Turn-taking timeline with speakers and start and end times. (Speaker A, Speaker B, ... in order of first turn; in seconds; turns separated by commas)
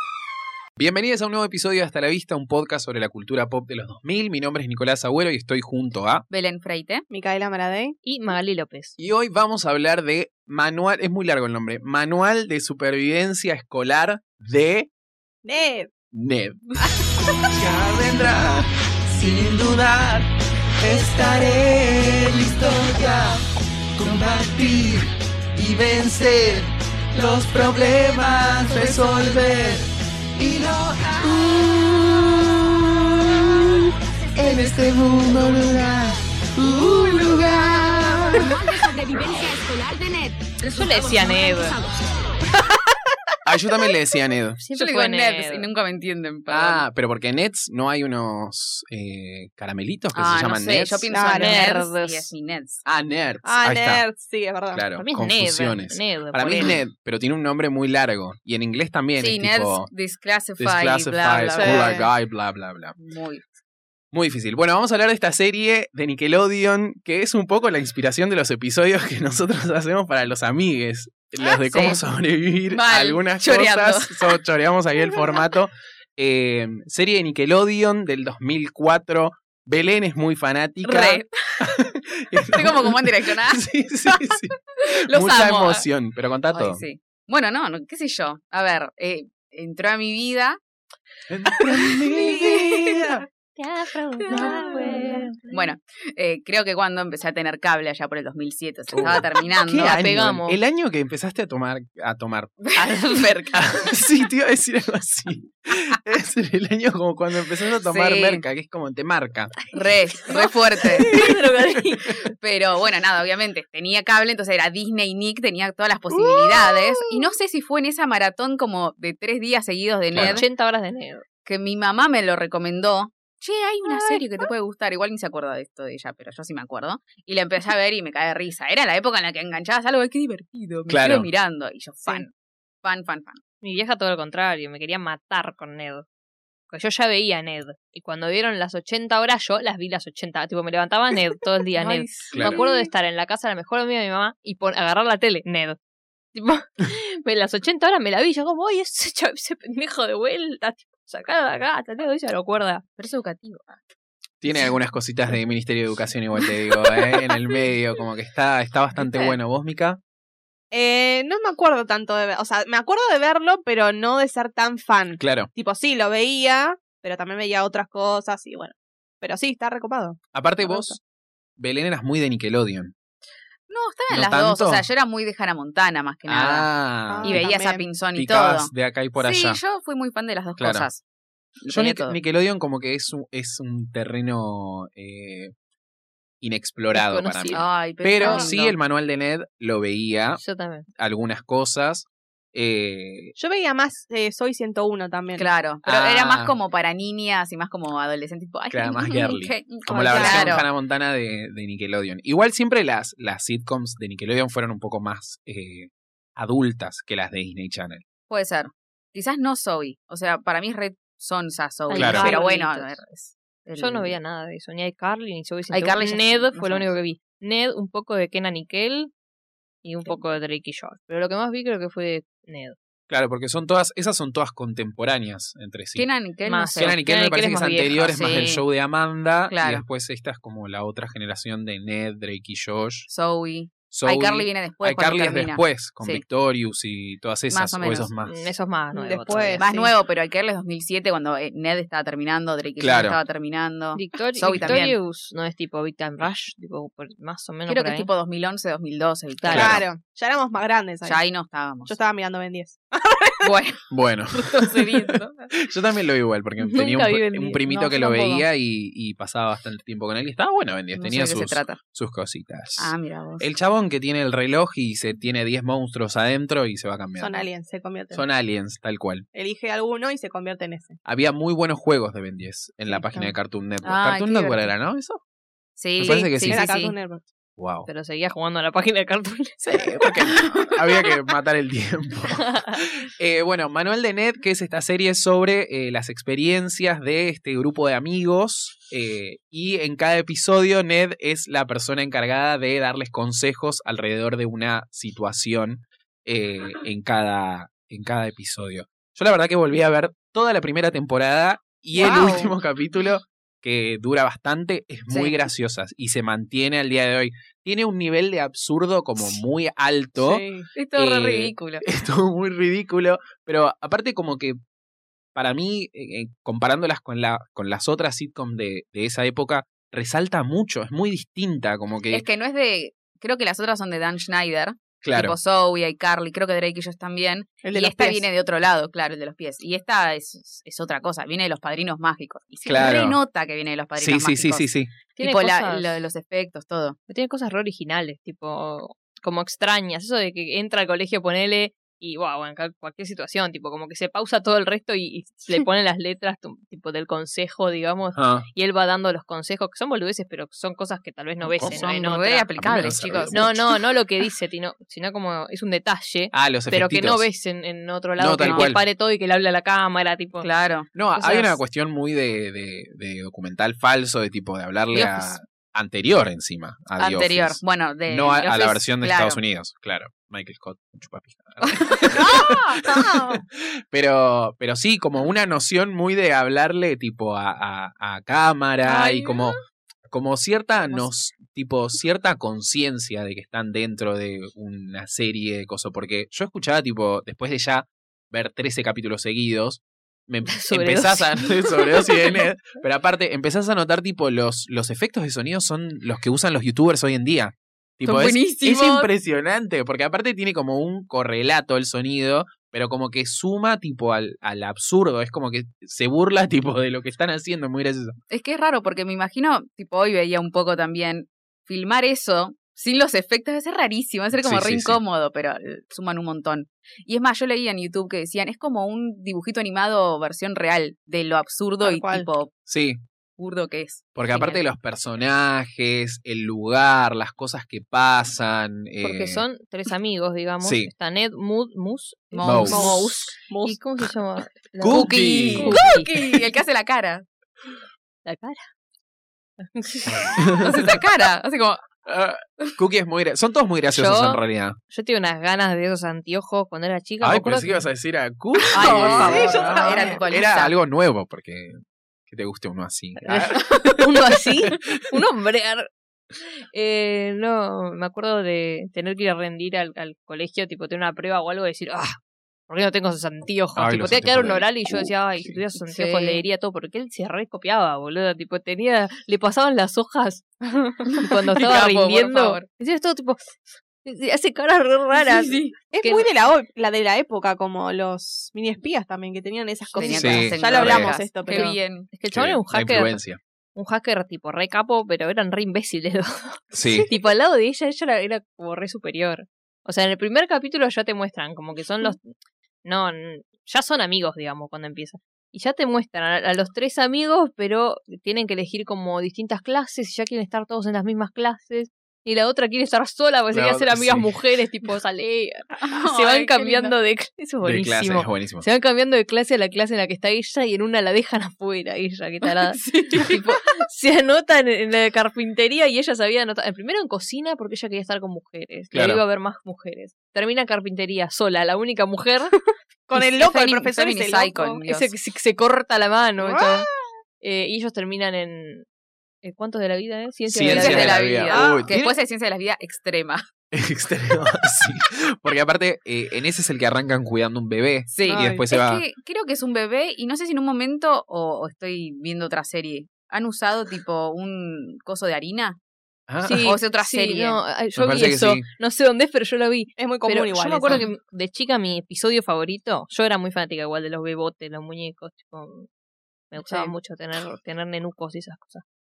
Speaker A: 0.8-6.2, Speaker B: 6.3-7.0, Speaker C: 7.1-8.0, Speaker D: 8.1-9.0, Speaker A: 9.0-14.9, Speaker C: 15.4-15.9, Speaker A: 16.1-16.6, Speaker A: 17.5-20.3, Speaker A: 20.8-23.4, Speaker A: 24.0-38.9, Speaker D: 40.6-41.8, Speaker A: 43.5-44.6, Speaker D: 44.6-45.7, Speaker B: 44.8-46.9, Speaker A: 46.5-51.1, Speaker B: 50.1-52.8, Speaker C: 51.1-51.6, Speaker D: 51.3-52.3, Speaker A: 52.9-54.0, Speaker C: 53.4-54.9, Speaker A: 54.7-59.9, Speaker D: 55.0-56.8, Speaker B: 59.2-62.0, Speaker A: 60.6-63.0, Speaker C: 61.5-62.1, Speaker B: 63.0-63.5, Speaker A: 64.1-86.8, Speaker B: 71.5-72.0, Speaker B: 72.7-74.4, Speaker B: 80.8-81.7, Speaker B: 82.4-83.7, Speaker B: 84.8-85.9, Speaker B: 86.5-90.6, Speaker A: 91.3-93.2, Speaker B: 92.2-92.6, Speaker D: 93.6-95.5, Speaker A: 94.3-94.8, Speaker B: 95.5-100.0, Speaker A: 98.9-102.7, Speaker D: 99.8-100.6, Speaker B: 102.7-103.4, Speaker D: 102.8-103.5, Speaker A: 103.5-109.5, Speaker B: 107.8-108.5, Speaker B: 109.7-111.1, Speaker D: 110.8-112.2, Speaker A: 111.0-111.3, Speaker B: 112.4-120.5, Speaker C: 116.1-117.4, Speaker A: 120.1-120.4, Speaker D: 120.2-121.2, Speaker B: 121.5-132.3, Speaker C: 123.9-124.2, Speaker A: 130.9-131.3, Speaker B: 132.8-133.4, Speaker D: 133.6-136.1, Speaker D: 136.7-145.8, Speaker B: 141.8-142.9, Speaker A: 142.3-142.6, Speaker D: 146.3-152.8, Speaker B: 153.0-153.8, Speaker A: 154.4-160.0, Speaker C: 159.0-159.4, Speaker C: 160.7-170.9, Speaker A: 165.2-165.5, Speaker A: 170.3-171.0, Speaker A: 171.6-172.9, Speaker B: 173.7-176.7, Speaker A: 174.1-174.8, Speaker A: 176.3-177.5, Speaker C: 177.1-177.8, Speaker B: 177.2-181.0, Speaker A: 178.2-179.6, Speaker A: 180.6-180.9, Speaker B: 181.6-182.2, Speaker A: 181.7-185.5, Speaker A: 186.4-190.4, Speaker D: 186.9-187.7, Speaker B: 187.5-188.8, Speaker C: 188.2-188.5, Speaker D: 190.4-190.9, Speaker A: 191.0-193.4, Speaker C: 193.4-195.5, Speaker B: 195.3-200.7, Speaker A: 195.8-196.6, Speaker A: 198.7-208.0, Speaker C: 199.9-200.5, Speaker B: 208.3-214.2, Speaker D: 211.9-213.0, Speaker A: 211.9-212.3, Speaker C: 212.1-212.5, Speaker D: 213.8-219.1, Speaker B: 215.7-216.9, Speaker D: 219.8-222.8, Speaker A: 223.1-226.1, Speaker B: 225.9-227.0, Speaker D: 226.5-228.2, Speaker A: 226.8-233.1, Speaker B: 228.1-228.7, Speaker B: 229.5-229.8, Speaker B: 233.1-236.2, Speaker A: 233.9-238.4, Speaker B: 237.5-238.1, Speaker D: 238.2-239.7, Speaker C: 238.9-239.9, Speaker B: 239.6-245.0, Speaker A: 242.8-243.2, Speaker D: 243.9-248.1, Speaker A: 244.5-244.8, Speaker B: 247.7-249.8, Speaker D: 249.4-249.7, Speaker A: 249.5-249.8, Speaker C: 249.6-251.2, Speaker B: 251.0-251.9, Speaker C: 251.8-253.5, Speaker B: 253.4-253.8, Speaker A: 253.9-254.8, Speaker B: 254.3-255.5, Speaker A: 255.6-267.5, Speaker D: 256.6-258.5, Speaker B: 260.9-261.8, Speaker B: 262.8-263.5, Speaker C: 267.2-268.3, Speaker A: 268.1-269.3, Speaker C: 269.3-271.0, Speaker A: 271.1-275.2, Speaker C: 272.9-273.3, Speaker B: 273.8-274.7, Speaker B: 275.8-276.9, Speaker A: 276.0-276.7, Speaker C: 276.4-277.2, Speaker A: 277.6-277.9, Speaker D: 277.9-280.1, Speaker A: 279.6-314.6, Speaker B: 301.9-302.5, Speaker C: 302.0-302.4, Speaker B: 305.1-305.4, Speaker C: 310.2-310.7, Speaker B: 310.8-311.8, Speaker A: 315.4-322.2, Speaker B: 322.1-334.7, Speaker A: 325.0-325.4, Speaker C: 327.6-328.3, Speaker A: 332.7-333.2, Speaker A: 334.0-334.9, Speaker D: 335.1-336.0, Speaker B: 335.2-337.0, Speaker D: 337.1-352.5, Speaker A: 348.1-348.5, Speaker B: 351.5-353.6, Speaker A: 351.5-351.8, Speaker A: 352.6-353.6, Speaker D: 353.3-360.5, Speaker A: 356.3-357.3, Speaker A: 358.2-358.8, Speaker B: 358.4-358.7, Speaker B: 360.4-360.9, Speaker A: 360.9-379.6, Speaker D: 361.2-361.6, Speaker D: 364.9-365.4, Speaker B: 367.0-369.4, Speaker B: 372.0-373.2, Speaker B: 378.9-379.4, Speaker A: 380.1-408.2, Speaker D: 390.5-391.4, Speaker B: 398.1-399.1, Speaker B: 408.3-422.5, Speaker A: 414.3-415.0, Speaker C: 421.8-422.3, Speaker A: 422.7-423.0, Speaker B: 423.4-424.6, Speaker A: 424.1-429.4, Speaker D: 429.0-436.1, Speaker A: 430.6-430.9, Speaker B: 432.3-432.9, Speaker A: 432.4-433.0, Speaker C: 432.6-433.8, Speaker A: 434.8-435.9, Speaker B: 434.9-437.2, Speaker D: 438.2-438.6, Speaker D: 439.6-440.4, Speaker A: 440.1-441.0, Speaker B: 440.6-441.8, Speaker A: 442.1-444.8, Speaker D: 443.9-444.4, Speaker D: 444.9-447.9, Speaker A: 447.2-451.8, Speaker B: 448.7-450.7, Speaker C: 448.9-450.2, Speaker D: 449.2-449.7, Speaker A: 452.3-454.7, Speaker D: 453.2-455.9, Speaker D: 456.7-462.2, Speaker D: 462.7-476.3, Speaker A: 463.8-465.6, Speaker B: 465.9-466.4, Speaker B: 471.1-472.7, Speaker B: 475.1-475.8, Speaker C: 475.9-481.7, Speaker B: 479.9-482.1, Speaker A: 480.1-481.1, Speaker D: 481.5-483.2, Speaker A: 482.3-483.4, Speaker D: 483.8-492.3, Speaker A: 486.7-487.1, Speaker D: 492.9-522.5, Speaker A: 503.5-504.3, Speaker B: 505.8-506.9, Speaker A: 507.6-508.6, Speaker B: 512.8-513.4, Speaker A: 518.9-519.2, Speaker C: 523.1-524.8, Speaker B: 523.1-525.1, Speaker D: 524.9-526.9, Speaker C: 526.4-527.0, Speaker D: 527.4-528.9, Speaker D: 529.4-531.2, Speaker A: 530.5-532.1, Speaker B: 530.7-533.4, Speaker C: 531.5-532.0, Speaker A: 533.7-539.0, Speaker B: 538.1-545.8, Speaker C: 538.2-538.7, Speaker A: 546.3-546.7, Speaker D: 546.4-555.9, Speaker B: 546.6-547.6, Speaker A: 548.0-548.7, Speaker C: 550.0-551.0, Speaker D: 556.5-558.8, Speaker C: 556.6-557.0